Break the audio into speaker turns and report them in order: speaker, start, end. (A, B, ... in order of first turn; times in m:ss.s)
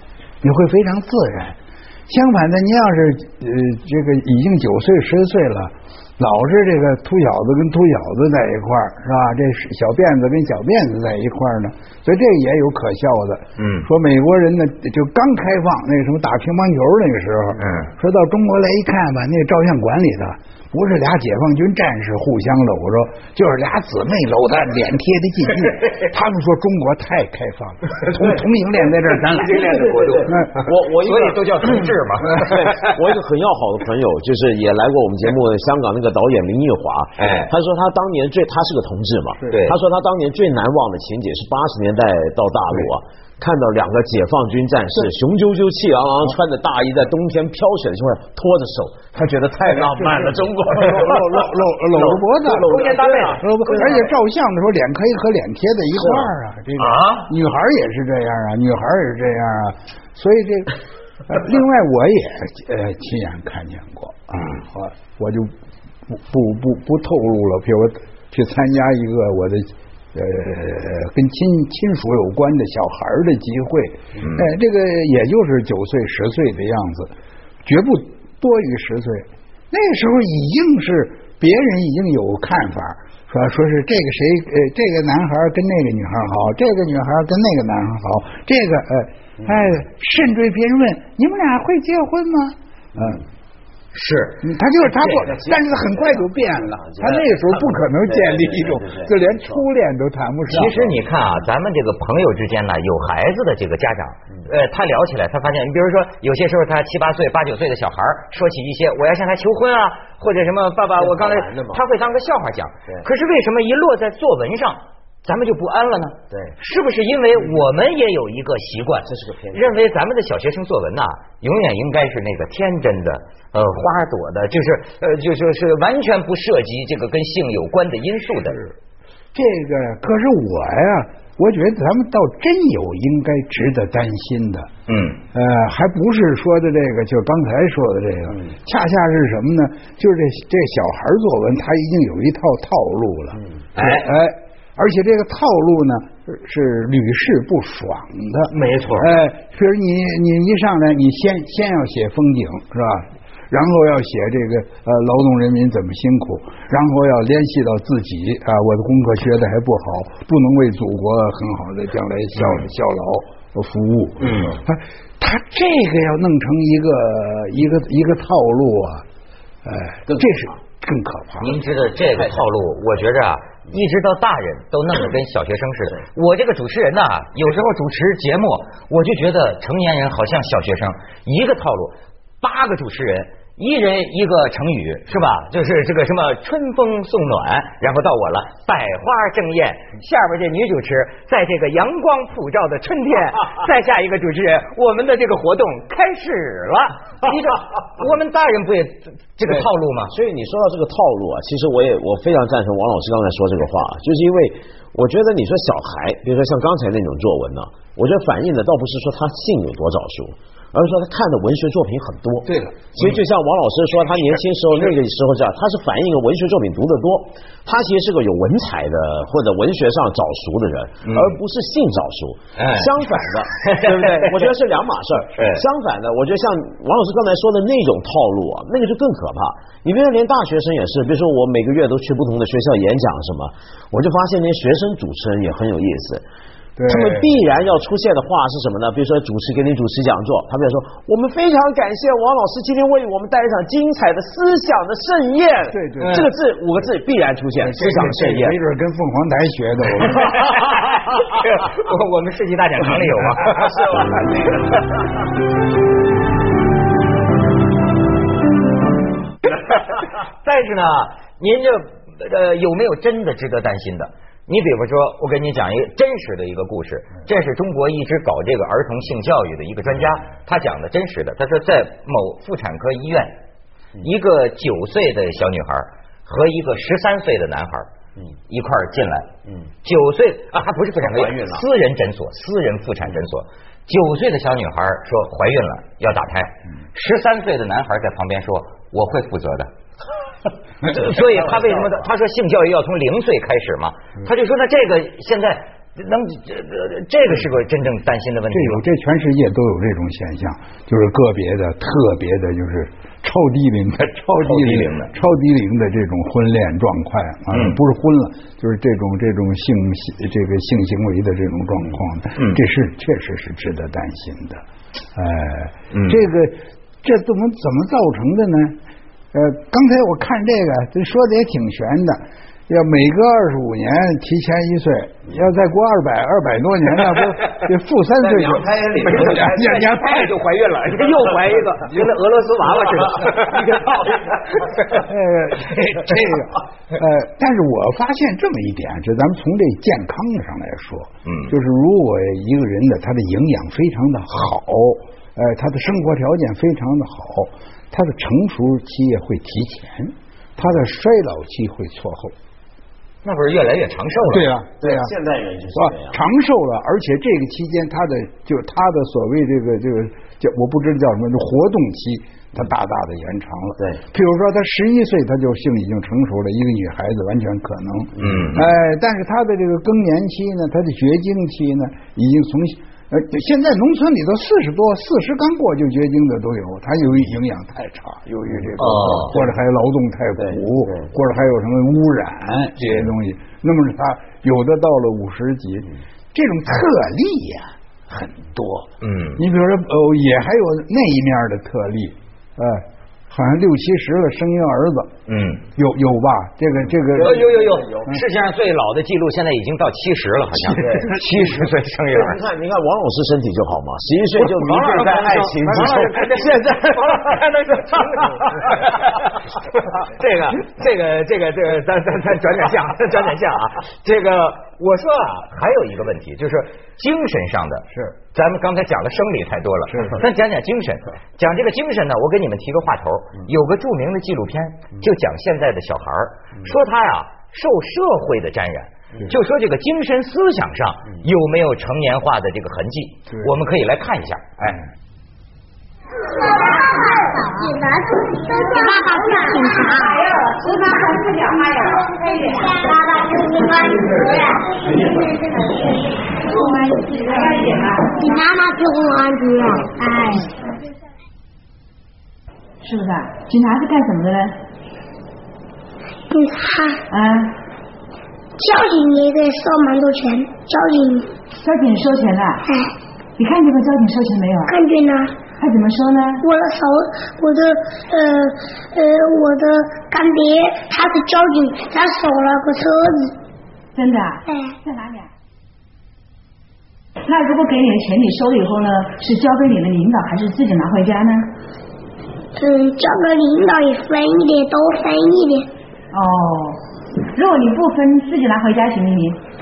0:00.4-0:01.6 A
0:02.1-0:29.7 A
0:13.6-0:13.9 B
0:17.6-0:17.9 B
0:29.3-0:32.6 B
0:29.5-0:54.1 C
0:30.2-0:30.5 A
0:37.2-0:37.5 B
0:39.5-0:39.8 B
0:49.9-0:52.7 A
0:52.6-0:53.8 B
0:53.4-1:00.7 A
0:56.0-0:56.3 C
0:56.8-0:57.3 B
1:01.2-1:05.5 A
1:06.1-1:17.1 A
1:14.2-1:14.5 B
1:17.6-1:33.2 A
1:29.4-1:29.6 C
1:33.9-1:35.3 B
1:34.4-1:40.9 A
1:35.1-1:39.6 C
1:40.5-2:08.6 B
1:51.0-1:51.8 C
1:56.3-1:56.6 C
1:59.0-1:59.7 C
2:09.3-2:14.7 A
2:14.9-2:15.2 B
2:15.3-2:49.0 A
2:23.7-2:24.1 B
2:28.5-2:29.1 B
2:44.2-2:44.5 B
2:49.6-2:51.6 A
2:50.1-2:50.4 C
2:51.4-3:20.1 B
3:19.5-3:56.2 C
3:32.4-3:32.7 A
3:41.0-3:41.4 B
3:42.6-3:42.9 B
3:43.5-3:44.5 B
3:45.4-3:45.6 B
3:56.8-3:57.3 A
3:56.8-4:08.6 C
4:05.7-4:06.2 A
4:06.0-4:06.3 B
4:07.6-4:10.3 A
4:10.1-4:13.9 B
4:19.4-4:33.4 B
4:34.0-4:37.9 B
4:38.5-4:39.3 B
4:39.8-4:49.7 B
4:41.0-4:41.6 C
4:50.8-4:58.8 B
4:51.1-4:51.9 C
4:58.5-5:14.6 A
5:04.4-5:05.1 B
5:07.5-5:07.8 B
5:15.1-5:18.8 A
5:15.9-5:16.2 B
5:19.3-5:30.3 A
5:28.2-5:29.5 C
5:28.9-5:35.0 B
5:34.9-5:52.3 A
5:41.2-5:41.5 B
5:53.2-5:54.5 B
5:54.3-5:55.1 A
5:54.8-5:56.2 C
5:55.7-6:35.1 A
6:08.2-6:08.6 C
6:08.2-6:08.6 B
6:18.8-6:19.4 B
6:20.4-6:21.1 C
6:29.0-6:29.4 B
6:35.3-6:35.6 B
6:35.7-6:37.5 A
6:37.1-6:38.1 C
6:37.2-6:42.4 B
6:40.7-6:41.5 A
6:40.7-6:41.1 C
6:42.1-6:46.4 C
6:44.6-6:46.7 A
6:44.6-7:14.8 B
6:59.9-7:00.2 A
7:16.2-7:21.2 D
7:20.0-7:22.6 E
7:21.7-7:27.4 D
7:26.5-7:28.2 E
7:28.1-7:30.7 D
7:32.8-7:34.6 E
7:36.3-7:37.0 D
7:37.1-7:37.6 E
7:38.6-7:41.4 D
7:41.5-7:42.6 E
7:42.6-7:42.9 D
7:43.4-7:44.8 E
7:44.6-7:45.4 D
7:45.6-7:46.4 E
7:46.4-7:53.4 D
7:53.9-7:55.3 E
7:54.5-7:54.7 D
7:57.2-8:01.5 E
8:02.6-8:05.7 D
8:06.1-8:09.4 E